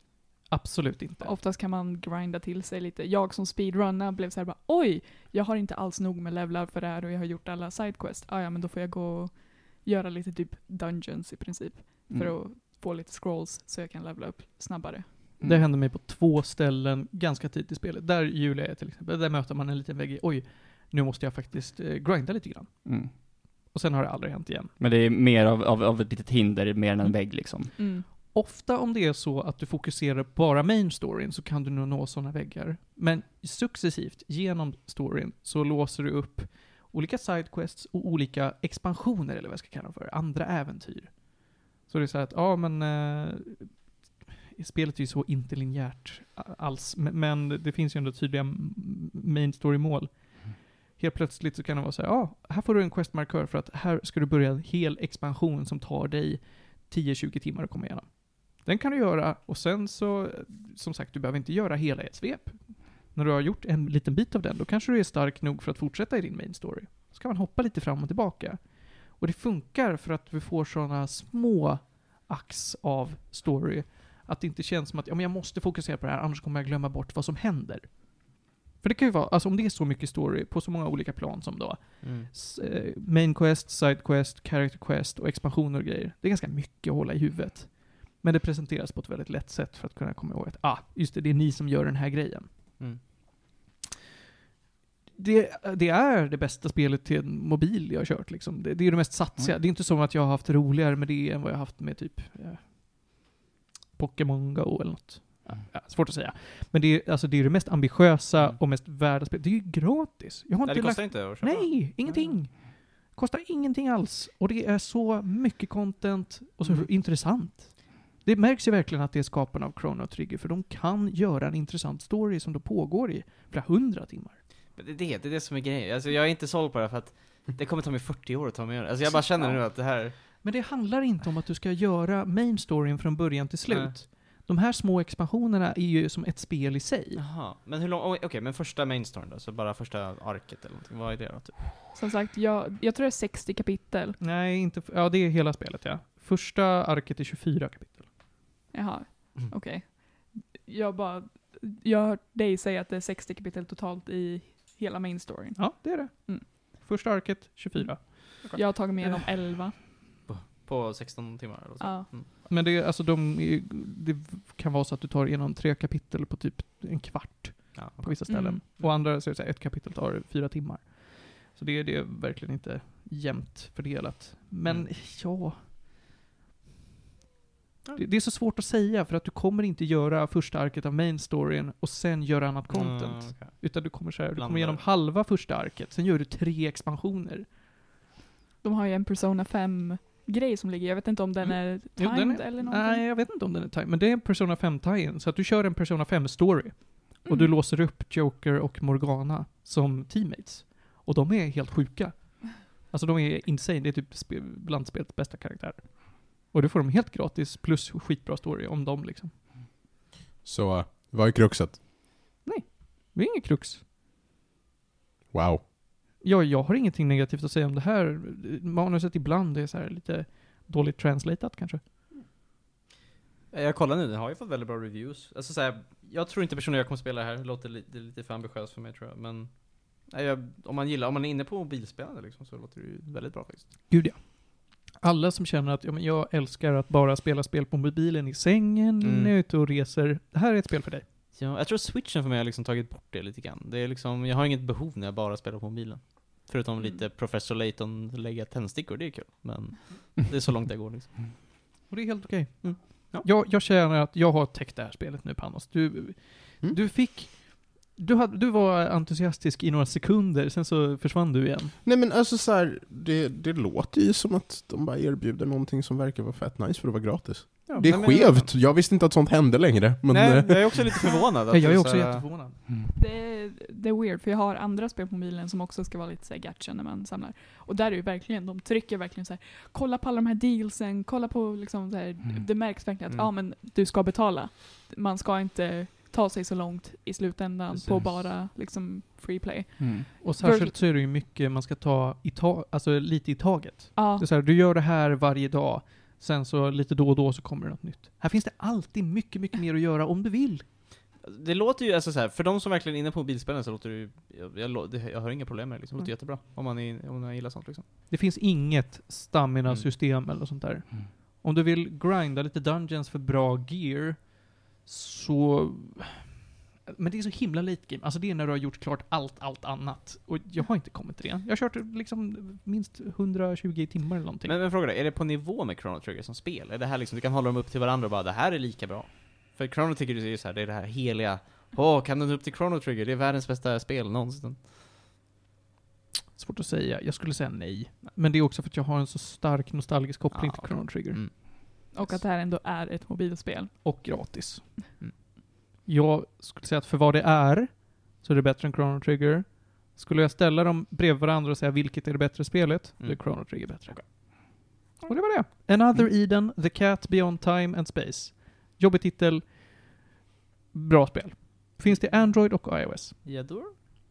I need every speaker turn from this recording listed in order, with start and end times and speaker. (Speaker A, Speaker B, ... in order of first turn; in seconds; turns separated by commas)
Speaker A: 0.5-1.4, Speaker B: 1.2-15.3, Speaker C: 12.1-12.4, Speaker A: 15.4-24.7, Speaker C: 22.9-23.1, Speaker C: 24.8-27.7, Speaker B: 27.8-28.1, Speaker A: 28.1-92.5, Speaker D: 82.0-82.3, Speaker A: 95.2-103.3, Speaker A: 104.0-124.4, Speaker D: 110.7-112.4, Speaker D: 116.6-116.9, Speaker D: 124.8-130.2, Speaker A: 129.1-137.2, Speaker D: 133.7-134.0, Speaker D: 137.2-141.8, Speaker B: 141.9-144.2, Speaker A: 144.2-148.1, Speaker B: 148.7-156.5, Speaker A: 155.6-158.5, Speaker B: 157.8-159.8, Speaker D: 160.3-162.3, Speaker B: 161.8-162.1, Speaker A: 162.4-175.6, Speaker D: 167.8-169.0, Speaker B: 168.3-168.6, Speaker A: 178.0-187.5, Speaker D: 182.7-184.8, Speaker B: 188.6-193.1, Speaker A: 191.5-209.3, Speaker B: 197.2-197.5, Speaker E: 210.4-211.8, Speaker A: 212.4-213.8, Speaker E: 215.3-215.6, Speaker A: 216.2-221.8, Speaker D: 223.5-233.7, Speaker A: 233.9-241.1, Speaker D: 239.0-239.3, Speaker D: 241.3-251.4, Speaker A: 251.9-261.8, Speaker D: 252.6-253.3, Speaker E: 261.8-270.9, Speaker D: 267.7-268.5, Speaker D: 270.1-272.3, Speaker A: 271.5-272.6, Speaker B: 272.9-290.8, Speaker D: 287.7-288.3, Speaker C: 289.8-290.1, Speaker A: 290.2-300.6, Speaker B: 293.9-294.3, Speaker D: 301.2-307.9, Speaker A: 308.1-316.3, Speaker A: 316.9-324.6, Speaker D: 324.4-334.6, Speaker A: 336.4-341.3, Speaker D: 340.3-341.4, Speaker B: 341.9-343.8, Speaker A: 343.8-345.2, Speaker A: 345.9-354.5, Speaker D: 353.0-354.4, Speaker A: 355.1-360.1, Speaker A: 360.7-363.2, Speaker D: 361.9-362.1, Speaker D: 363.2-363.8